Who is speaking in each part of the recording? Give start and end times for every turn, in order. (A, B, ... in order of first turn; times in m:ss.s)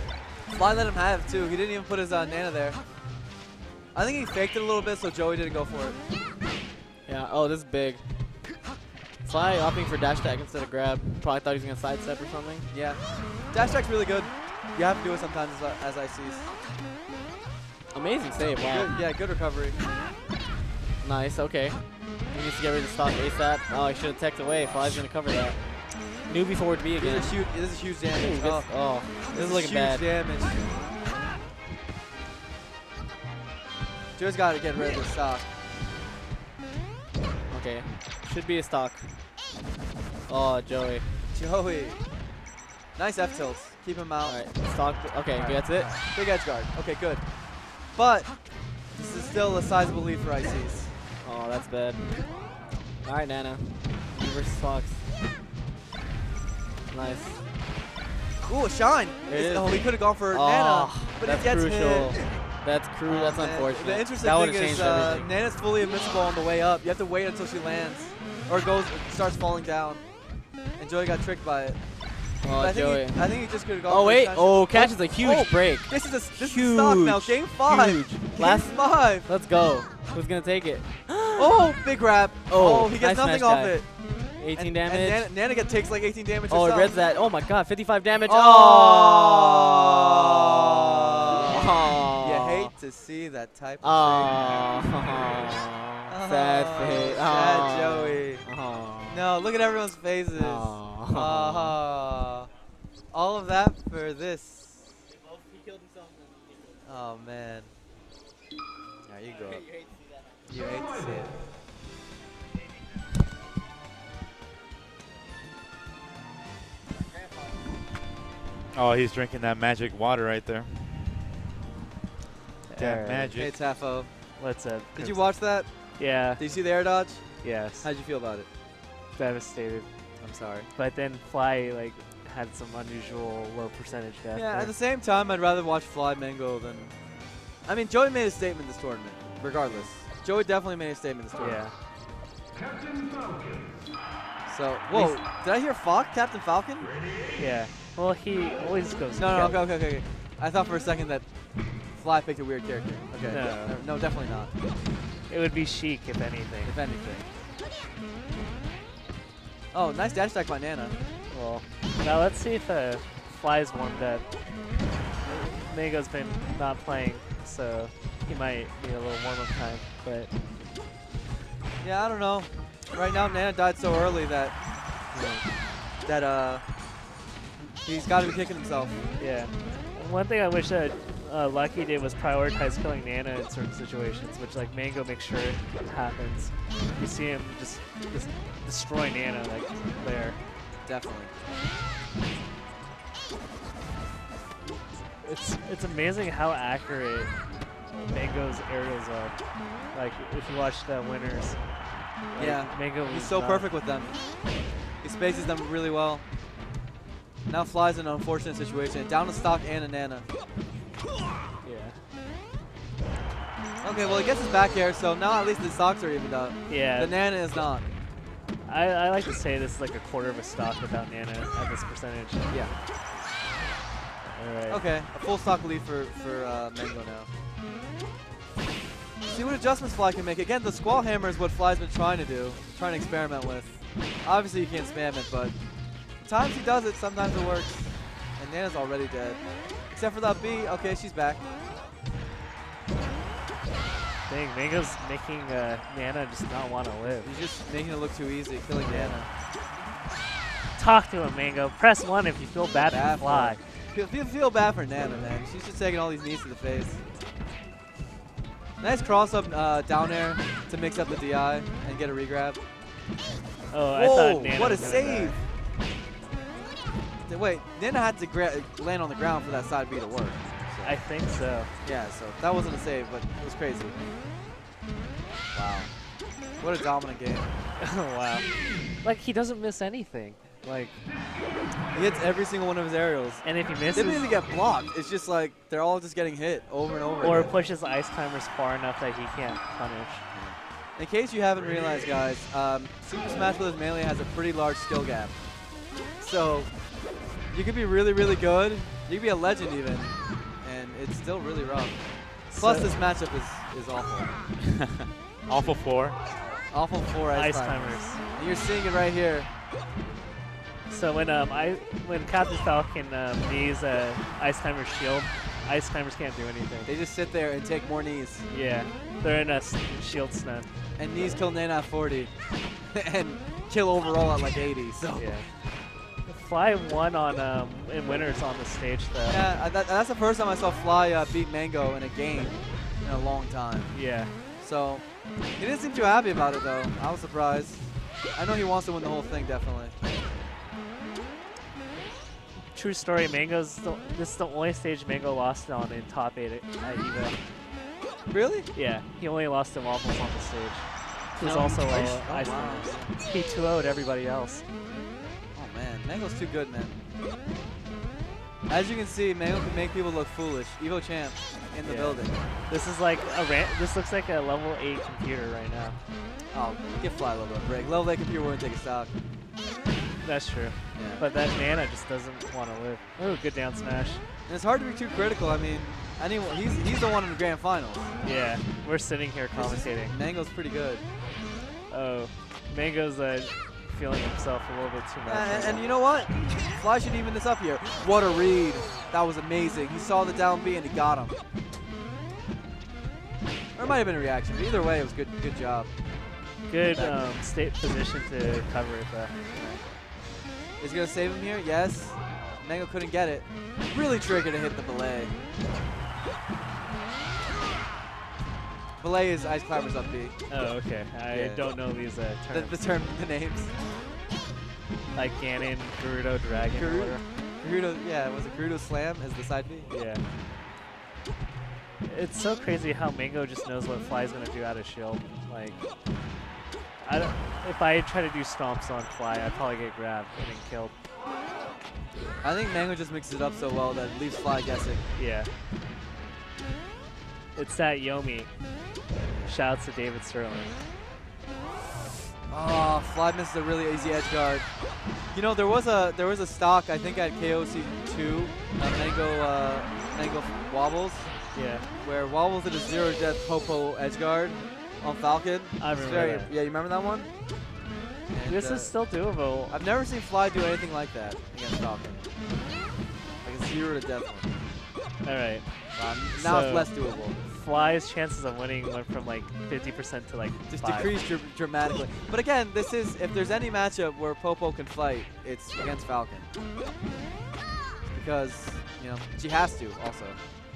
0:00.5-0:02.8 A
0:03.9-0:06.0 A
0:07.1-0:08.0 B
0:09.2-0:12.7 B
0:12.7-0:16.5 A
0:17.9-0:18.9 B
0:18.6-0:19.8 A
0:21.0-0:27.5 B
0:27.0-0:30.7 A
0:28.2-0:30.1 B
0:34.2-0:35.5 A
0:37.5-0:39.2 B
0:40.3-0:41.1 B
0:41.3-0:42.0 A
0:43.0-0:44.4 A
0:44.2-0:46.0 B
0:45.3-0:51.0 A
0:51.2-0:52.4 B
0:53.0-0:55.0 B
0:56.9-0:57.4 B
0:58.4-1:02.2 A
0:59.3-1:05.3 B
1:03.1-1:10.1 A
1:10.8-1:19.3 A
1:12.4-1:21.7 B
1:21.4-1:24.0 A
1:22.5-1:25.3 B
1:24.6-1:27.0 A
1:26.5-1:30.6 B
1:28.3-1:34.8 A
1:31.3-1:32.7 B
1:33.8-1:39.2 B
1:36.1-1:38.5 A
1:39.1-1:42.5 A
1:40.4-1:41.8 B
1:43.1-1:45.0 A
1:46.8-1:47.7 A
1:49.1-1:49.7 A
1:50.5-1:51.4 A
1:58.7-2:01.0 C
2:02.7-2:03.4 D
2:02.8-2:03.5 C
2:03.4-2:04.3 A
2:04.4-2:06.6 D
2:05.0-2:08.5 A
2:07.4-2:07.9 D
2:09.2-2:10.1 D
2:10.2-2:10.7 A
2:10.8-2:14.7 D
2:14.4-2:17.0 A
2:17.6-2:21.6 A
2:19.7-2:19.9 D
2:21.4-2:21.8 D
2:24.5-2:27.0 A
2:24.9-2:25.2 D
2:27.4-2:29.6 D
2:29.2-2:34.5 A
2:33.3-2:33.8 D
2:35.3-2:36.8 D
2:36.7-2:37.3 A
2:39.7-2:41.0 A
2:41.3-2:44.3 D
2:45.2-2:45.6 A
2:45.5-2:50.3 D
2:51.8-2:54.6 A
2:55.2-2:55.4 D
2:56.0-2:56.6 A
2:57.8-2:59.0 A
2:59.2-3:10.4 D
3:10.8-3:11.3 A
3:15.2-3:17.4 D
3:17.9-3:19.4 D
3:19.9-3:21.6 D
3:22.3-3:23.7 D
3:22.4-3:24.2 A
3:25.0-3:26.2 A
3:27.5-3:30.3 A
3:31.6-3:32.0 D
3:33.8-3:37.9 A
3:36.7-3:37.1 D
3:38.6-3:42.5 D
3:44.2-3:44.8 D
3:44.7-3:47.3 A
3:49.2-3:55.6 A
3:56.2-4:01.4 A
4:04.3-4:07.3 D
4:07.2-4:09.3 A
4:08.8-4:09.2 D
4:10.8-4:13.6 D
4:12.8-4:17.0 A
4:18.8-4:22.6 A
4:23.7-4:25.4 D
4:23.9-4:25.4 A
4:27.3-4:31.0 A
4:30.8-4:31.7 D
4:31.8-4:34.0 A
4:35.5-4:35.9 A
4:36.6-4:37.5 A
4:37.8-4:41.0 D
4:41.9-4:47.5 A
4:43.4-4:44.3 D
4:47.2-4:50.2 D
4:50.3-4:55.5 A
4:56.2-5:04.5 A
5:02.5-5:02.9 D
5:05.5-5:06.2 C
5:06.7-5:09.5 A
5:07.3-5:08.2 D
5:10.9-5:16.9 D
5:16.8-5:18.5 A
5:18.5-5:20.7 D
5:21.0-5:25.4 A
5:25.2-5:25.5 D
5:26.3-5:29.5 D
5:29.3-5:39.9 A
5:33.9-5:34.4 D
5:42.7-5:47.4 D
5:48.3-5:48.7 A
5:48.7-5:54.6 D
5:51.4-5:53.1 A
5:55.6-5:57.0 A
5:58.7-6:02.4 A
6:01.8-6:06.0 D
6:06.5-6:09.1 A
6:10.2-6:14.2 D
6:11.0-6:11.2 A
6:14.5-6:18.2 A
6:18.2-6:20.2 D
6:19.6-6:21.0 A
6:21.9-6:25.9 D
6:25.3-6:31.4 A
6:33.8-6:35.9 A
6:36.7-6:39.4 D
6:36.9-6:37.2 A
6:39.5-6:39.8 A
6:40.8-6:45.4 A
6:49.0-6:50.4 A
6:50.5-6:52.8 D
6:51.3-6:51.7 A
6:52.5-6:53.7 A
6:55.1-6:57.2 D
6:56.7-6:59.9 A
6:59.9-7:00.2 D
7:02.0-7:05.8 D
7:07.0-7:10.9 D
7:12.2-7:12.4 D
7:12.4-7:15.0 A
7:15.2-7:15.5 D
7:17.6-7:18.5 D
7:19.3-7:19.6 A
7:19.4-7:20.7 D
7:22.5-7:24.7 A
7:25.3-7:37.3 A
7:31.5-7:31.9 D
7:35.8-7:36.5 D
7:38.3-7:39.0 A
7:38.5-7:39.8 D
7:39.7-7:42.2 A
7:43.4-7:44.5 A
7:45.2-7:51.1 D
7:46.0-7:47.4 A
7:50.7-7:56.5 A
7:58.1-8:00.4 A